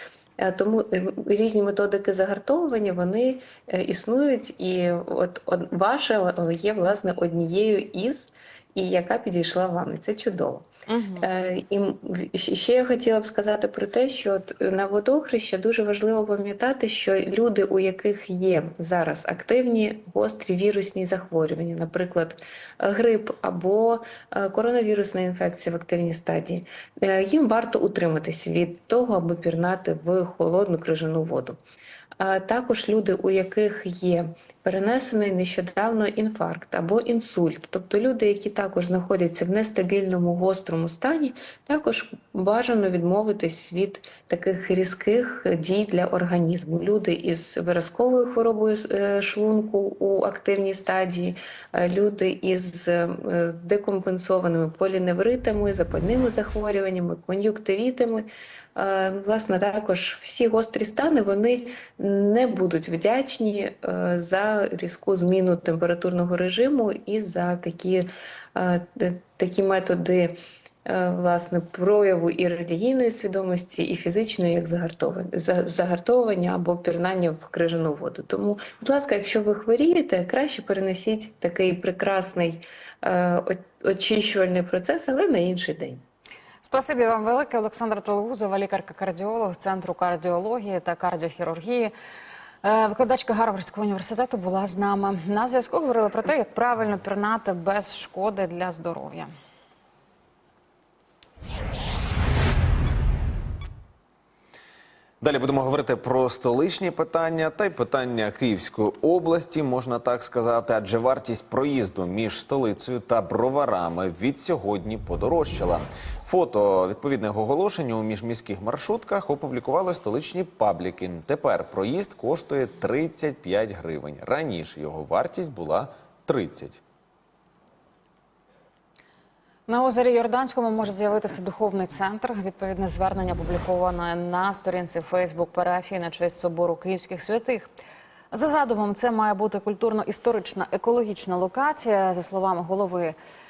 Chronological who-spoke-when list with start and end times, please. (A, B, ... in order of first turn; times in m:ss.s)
0:00.4-0:10.7 A
0:10.9-0:11.3 B
0:11.2-0:31.6 A
0:32.2-1:10.4 A
1:10.9-1:26.0 A
1:26.6-1:31.9 B
1:32.6-1:39.3 B
1:45.2-2:06.8 C
2:09.7-2:17.7 B
2:18.3-2:23.2 B